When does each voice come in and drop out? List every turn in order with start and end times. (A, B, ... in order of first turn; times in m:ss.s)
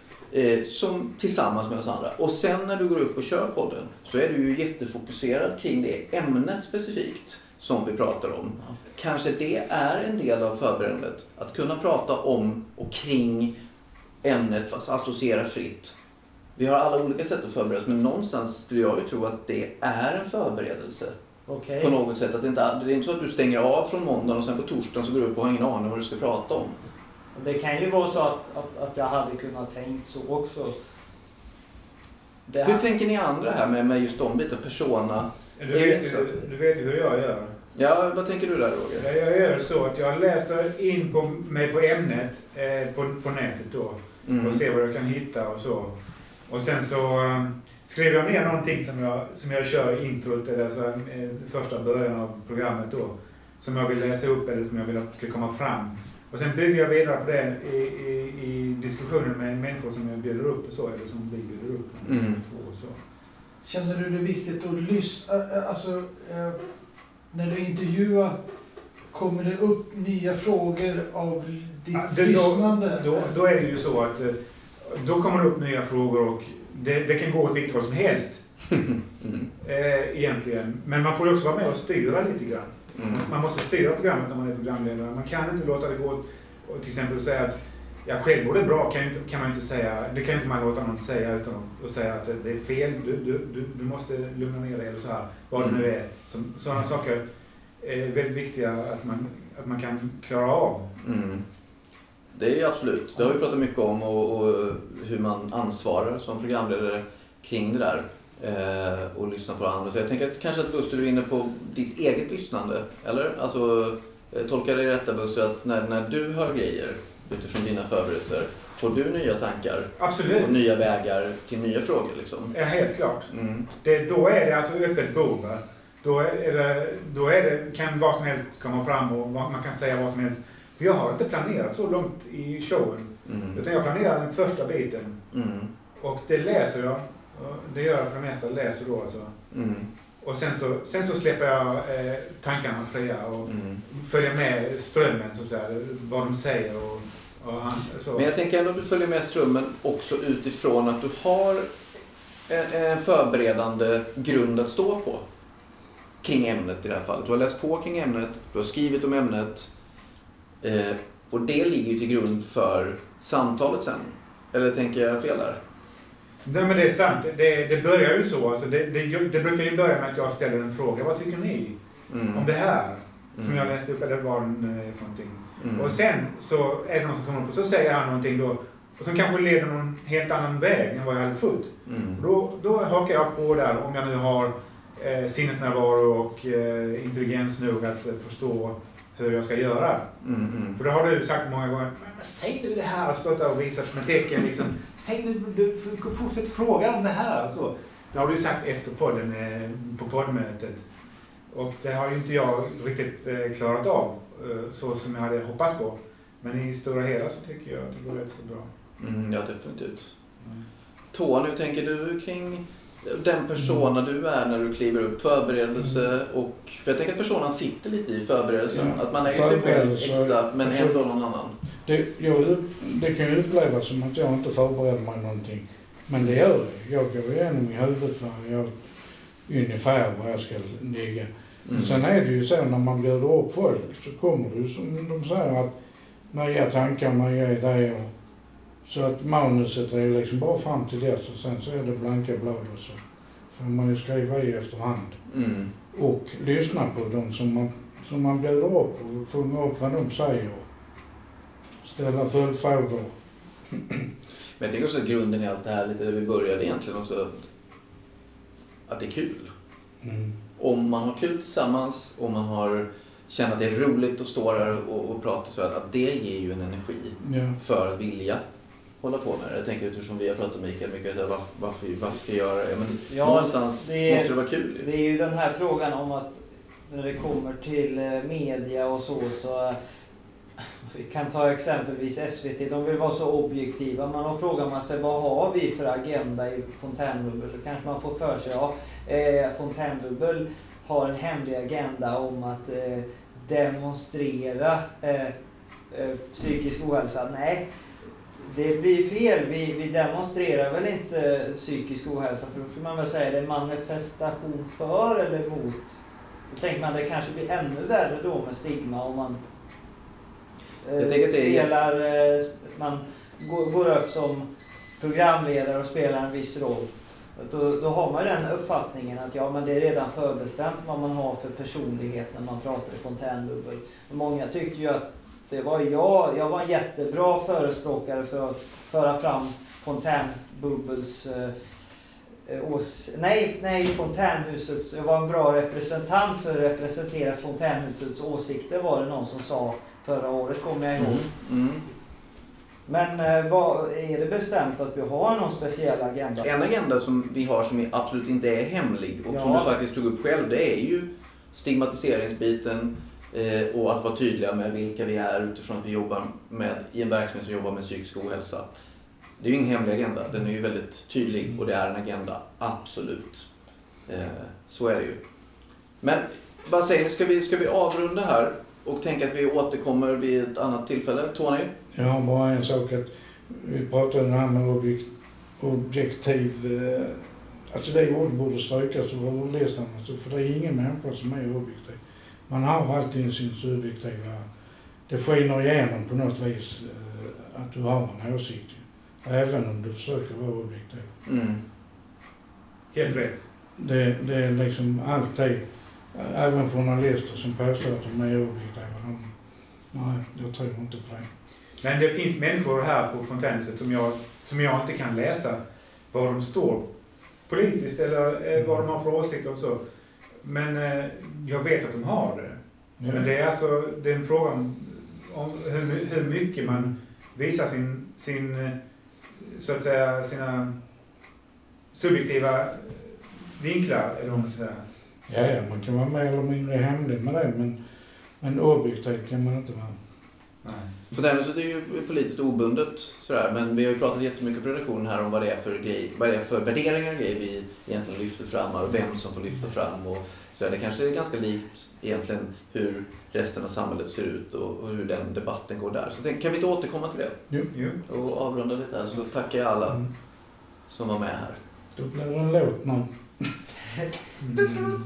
0:00.3-0:13.5 A
0:14.2-0:15.9 A
0:16.6-0:21.1 A
0:21.5-0:21.9 B
0:21.8-0:26.8 A
0:27.3-0:30.7 B
0:32.5-0:32.8 B
0:32.6-0:36.4 A
0:35.6-0:37.5 C
0:37.7-0:39.0 A
0:39.0-0:45.9 C
0:44.2-0:44.6 A
0:46.5-1:03.0 C
1:02.0-1:02.4 A
1:03.6-1:06.6 D
1:07.3-1:08.4 D
1:09.1-1:13.3 D
1:11.9-1:18.4 C
1:18.7-1:19.5 A
1:19.6-1:37.2 C
1:22.9-1:23.2 A
1:35.6-1:35.8 A
1:37.8-1:40.9 C
1:41.0-1:41.4 A
1:42.3-2:02.5 A
2:00.0-2:00.6 C
2:02.5-2:15.2 C
2:03.3-2:03.7 A
2:13.2-2:13.6 A
2:15.3-2:15.7 A
2:16.0-2:19.3 C
2:19.5-2:19.9 A
2:20.2-2:28.3 C
2:23.4-2:23.8 A
2:28.1-2:31.8 A
2:32.5-2:35.2 A
2:36.2-2:39.7 A
2:40.6-2:45.6 A
2:46.4-2:51.8 C
2:52.1-2:52.4 A
2:52.3-3:10.1 C
2:53.4-2:53.7 A
2:55.6-2:56.0 A
3:01.8-3:02.2 A
3:10.2-3:10.8 A
3:10.8-3:20.8 C
3:21.5-3:28.7 C
3:29.0-3:30.1 A
3:31.1-3:41.5 A
3:38.7-3:41.0 E
3:41.8-3:48.8 E
3:49.5-3:55.7 E
3:51.6-3:52.0 A
3:56.3-3:58.1 E
3:58.8-4:03.0 E
4:03.5-4:05.2 E
4:05.3-4:05.7 A
4:05.9-4:10.6 E
4:11.8-4:13.1 E
4:13.7-4:14.1 E
4:14.6-4:17.4 A
4:18.9-4:19.5 A
4:20.0-4:20.3 E
4:20.6-4:28.4 A
4:27.2-4:27.6 E
4:29.0-4:34.9 A
4:33.1-4:39.8 B
4:40.8-4:55.3 B
4:55.9-4:57.6 B
4:58.4-5:06.0 B
5:06.5-5:09.4 B
5:10.8-5:14.4 B
5:11.0-5:11.7 A
5:15.0-5:31.5 B
5:32.4-5:41.3 B
5:41.0-5:41.8 A
5:42.9-5:46.4 B
5:46.4-5:58.7 A
5:49.3-5:49.7 B
5:59.4-6:03.5 A
6:04.1-6:05.2 A
6:06.0-6:11.7 A
6:11.9-6:24.4 E
6:25.1-6:31.1 E
6:31.2-6:31.6 A
6:32.9-6:33.4 C
6:33.8-6:39.3 E
6:39.9-6:41.3 E
6:41.8-6:45.6 C
6:46.1-6:46.9 C
6:47.5-6:49.8 C
6:50.4-6:58.8 C
6:53.0-6:53.3 E
6:59.4-7:00.7 C
7:01.9-7:04.8 C
7:05.3-7:07.8 E
7:08.4-7:10.0 E
7:10.6-7:11.0 C
7:11.1-7:27.4 A
7:27.7-7:28.0 C
7:28.0-7:30.0 A
7:30.9-7:31.6 A
7:31.9-7:33.5 E
7:34.4-7:34.9 C
7:34.6-7:35.0 E